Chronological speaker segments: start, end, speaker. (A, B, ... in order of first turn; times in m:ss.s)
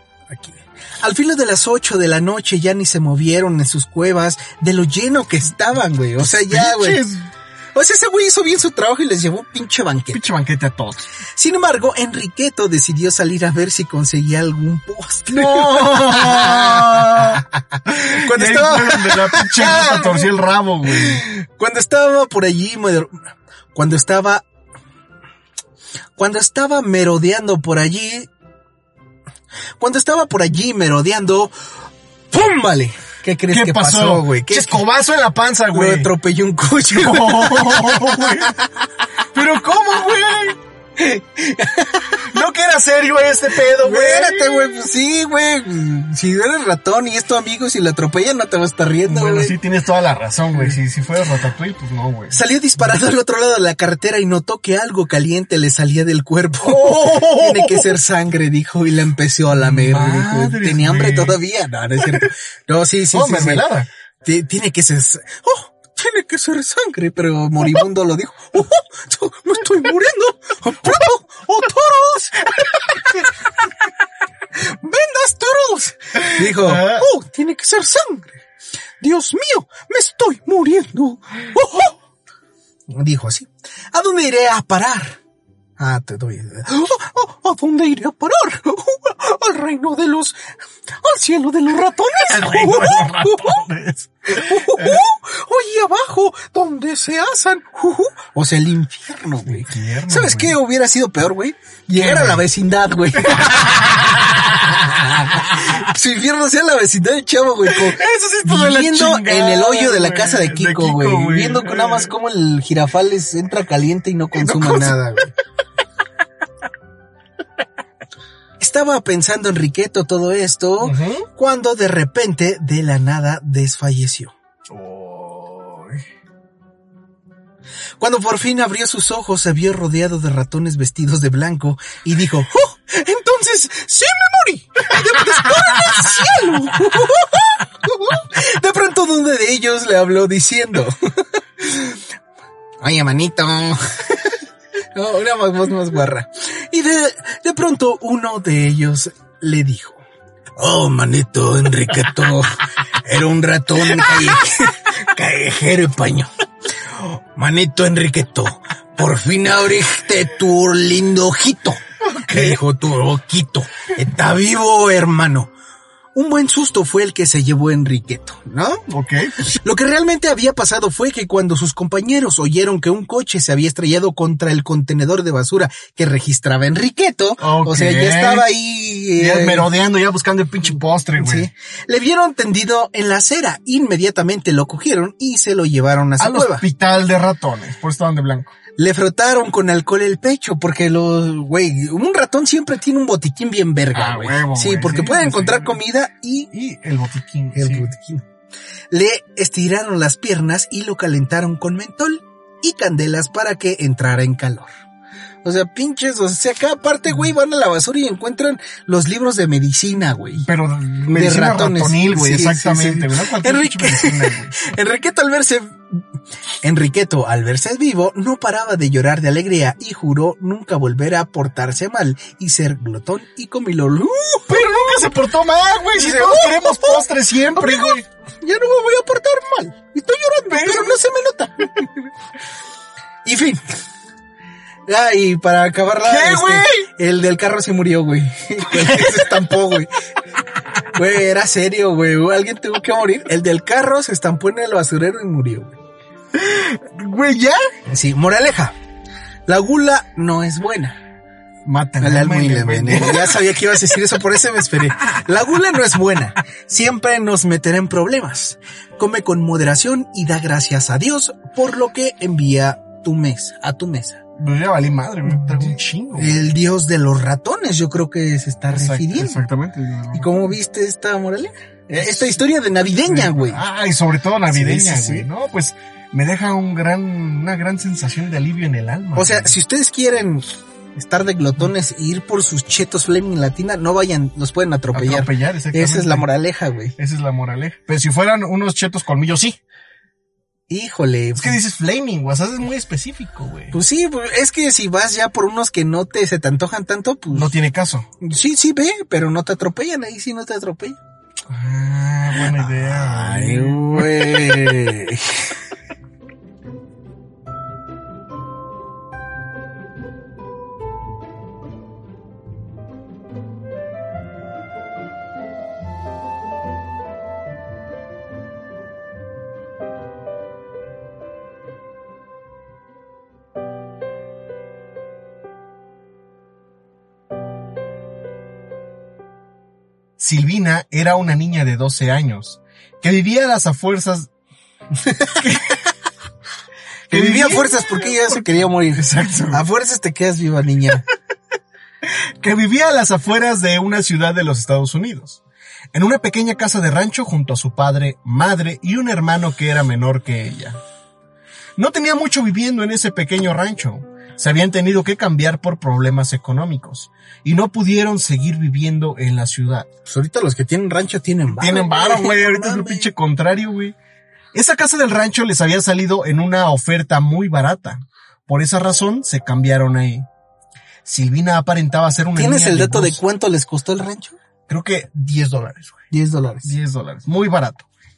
0:00.3-0:07.0 A
0:06.2-0:07.3 B
0:07.7-0:10.2 A
0:10.1-0:11.0 B
0:11.4-0:20.3 A
0:15.3-0:21.2 B
0:20.8-0:23.2 A
0:23.7-0:24.4 A
0:26.2-0:28.3 A
0:29.8-0:31.5 A
0:32.3-0:34.8 A
0:33.5-0:36.1 B
0:35.7-0:38.7 A
0:36.9-0:38.6 B
0:39.3-0:40.6 B
0:41.0-0:42.4 A
0:42.2-0:44.8 B
0:43.6-0:49.6 A
0:49.0-0:52.4 B
0:52.3-1:03.7 A
0:56.6-0:58.0 B
0:59.6-1:01.4 B
1:03.1-1:03.9 B
1:04.2-1:13.3 A
1:14.5-1:18.4 A
1:16.2-1:17.1 B
1:19.0-1:22.0 A
1:22.9-1:25.2 A
1:25.8-1:33.7 A
1:32.2-1:35.0 B
1:34.3-1:43.8 A
1:39.4-1:40.6 B
1:41.9-1:42.4 B
1:43.2-1:45.7 B
1:44.8-1:55.3 A
1:47.6-1:52.1 B
1:54.4-1:55.0 B
1:58.6-2:04.3 A
2:00.8-2:01.3 B
2:04.7-2:06.0 B
2:08.0-2:22.0 A
2:15.0-2:16.8 B
2:22.8-2:24.4 A
2:24.9-2:30.0 A
2:30.6-2:36.3 A
2:36.9-2:45.5 A
2:42.0-2:42.6 B
2:46.1-2:48.8 A
2:48.9-2:49.4 B
2:49.4-2:59.7 A
2:57.4-2:58.5 B
2:59.2-3:01.5 B
3:01.2-3:06.6 A
3:06.2-3:08.5 B
3:08.8-3:16.5 A
3:13.9-3:15.8 B
3:16.5-3:17.9 B
3:17.5-3:18.2 A
3:18.9-3:24.7 A
3:25.4-3:30.5 A
3:30.4-3:34.5 B
3:31.1-3:36.0 A
3:36.6-3:45.0 A
3:44.5-3:48.0 B
3:45.9-3:52.1 A
3:50.5-3:51.0 B
3:53.2-3:53.6 A
3:54.9-3:59.9 A
3:56.0-3:56.9 B
3:58.7-3:59.3 B
4:00.9-4:05.8 A
4:06.3-4:07.6 B
4:07.9-4:08.8 A
4:09.5-4:11.0 A
4:11.6-4:14.0 B
4:12.0-4:24.2 A
4:24.4-4:26.5 B
4:25.3-4:29.4 A
4:28.7-4:30.5 B
4:30.1-4:33.6 A
4:31.9-4:32.4 B
4:33.0-4:39.5 B
4:34.5-4:35.3 A
4:39.2-4:47.0 A
4:44.9-4:46.3 B
4:47.0-4:49.6 B
4:50.7-4:51.6 A
4:51.4-4:53.8 B
4:53.7-4:57.5 A
4:57.3-4:58.1 B
4:58.2-5:01.0 A
5:01.5-5:04.9 B
5:02.5-5:05.5 A
5:30.2-5:34.3 B
5:35.4-5:35.8 B
5:37.1-5:41.0 A
5:37.1-5:39.7 B
5:42.0-5:45.4 B
5:45.9-5:50.8 B
5:51.8-5:59.9 B
6:00.1-6:03.1 A
6:01.5-6:04.0 B
6:04.5-6:10.3 B
6:11.0-6:13.2 B
6:12.4-6:14.4 A
6:14.7-6:16.0 B
6:16.1-6:16.7 A
6:16.6-6:17.8 B